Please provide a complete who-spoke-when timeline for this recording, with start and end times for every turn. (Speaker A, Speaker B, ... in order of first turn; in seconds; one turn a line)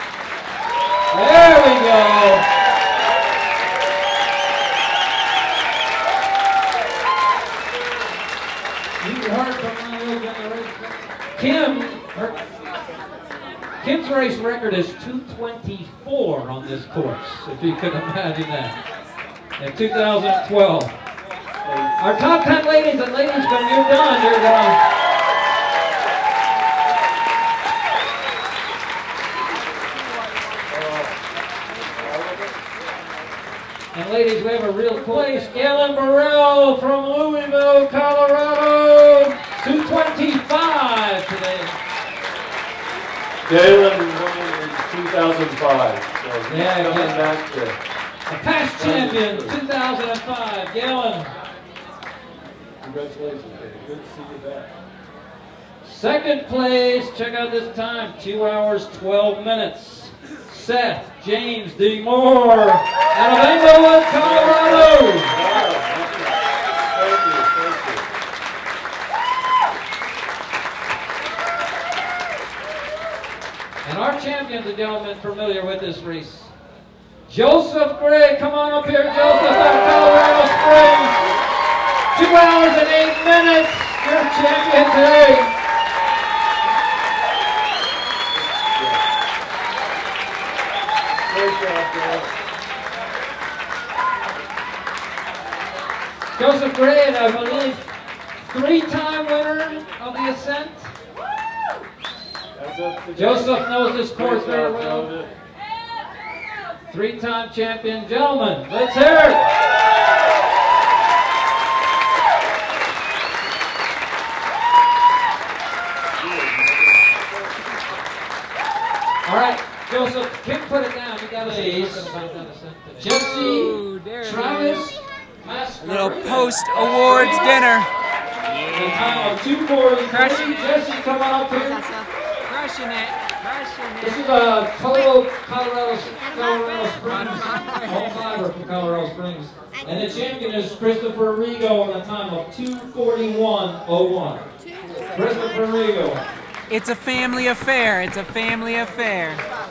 Speaker A: 1.1-2.5
Speaker A: 9.0-12.4
Speaker A: 13.8-18.8
Speaker A: 19.6-20.9
Speaker B: 21.6-22.0
Speaker A: 22.0-24.8
Speaker B: 30.7-31.2
Speaker B: 31.9-32.6
Speaker A: 33.9-41.8
Speaker B: 43.4-47.8
Speaker A: 46.5-47.3
Speaker A: 48.3-51.3
Speaker B: 48.7-49.6
Speaker B: 52.8-54.7
Speaker A: 55.8-65.4
Speaker B: 64.2-68.0
Speaker A: 73.8-76.5
Speaker A: 77.3-81.3
Speaker A: 82.1-85.5
Speaker B: 88.5-89.0
Speaker B: 91.2-92.3
Speaker A: 96.3-97.9
Speaker A: 98.4-100.9
Speaker B: 102.5-105.3
Speaker A: 103.1-105.1
Speaker A: 106.9-109.5
Speaker B: 116.2-117.1
Speaker A: 119.2-127.5
Speaker C: 123.0-124.9
Speaker C: 125.8-127.9
Speaker C: 128.5-129.3
Speaker A: 128.7-131.9
Speaker C: 130.1-130.7
Speaker C: 131.8-134.2
Speaker A: 134.0-144.5
Speaker C: 137.4-137.7
Speaker A: 145.0-146.2
Speaker C: 146.7-149.4